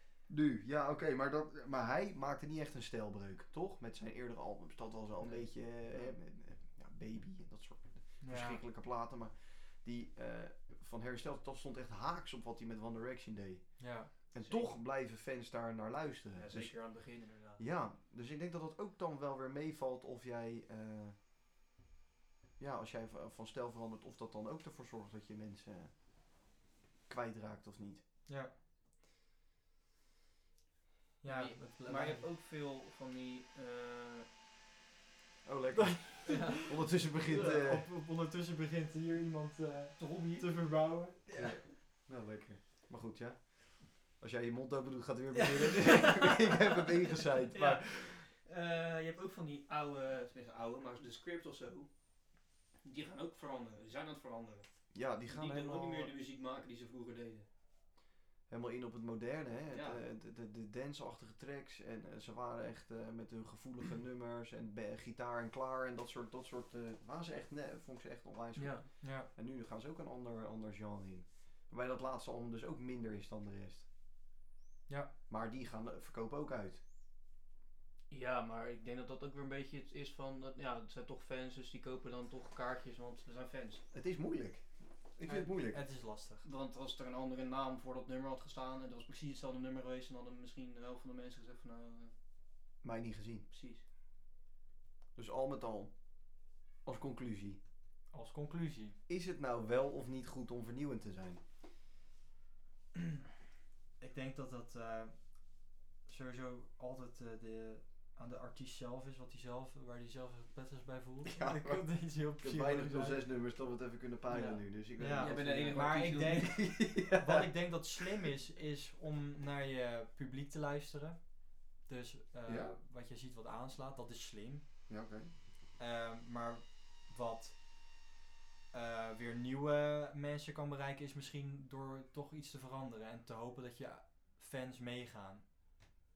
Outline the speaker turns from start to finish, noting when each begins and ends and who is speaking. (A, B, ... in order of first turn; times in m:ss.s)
0:00.3-0:21.2 A
0:05.2-0:06.1 B
0:08.2-0:08.6 C
0:13.8-0:14.1 C
0:14.4-0:14.7 B
0:16.3-0:17.6 B
0:22.6-0:25.9 A
0:27.1-0:28.0 A
0:28.2-0:28.5 C
0:31.2-0:32.3 C
0:31.2-0:34.3 B
0:35.4-0:37.8 A
0:35.8-0:36.8 C
0:36.2-0:36.6 B
0:37.2-0:37.6 B
0:37.3-0:41.2 C
0:40.0-0:40.7 B
0:41.2-0:41.6 B
0:41.3-0:48.2 A
0:45.4-0:46.3 B
0:47.2-0:51.9 B
0:52.8-0:54.7 B
0:54.9-0:56.1 A
0:55.2-0:57.5 B
0:58.5-1:13.8 A
0:59.7-1:00.0 B
1:08.6-1:08.9 B
1:09.0-1:09.3 C
1:15.3-1:16.8 A
1:18.1-1:23.8 B
1:23.9-1:25.8 A
1:25.3-1:26.4 C
1:26.4-1:32.1 B
1:32.8-1:33.5 A
1:33.5-1:33.8 B
1:35.2-1:35.9 A
1:36.8-1:37.6 A
1:38.1-1:39.0 C
1:39.1-1:41.4 A
1:44.0-1:45.4 C
1:46.0-1:53.2 C
1:51.2-1:58.1 A
1:54.3-1:56.7 B
1:55.0-2:04.6 C
2:02.4-2:02.7 A
2:04.9-2:05.3 A
2:05.8-2:07.6 C
2:08.7-2:15.4 C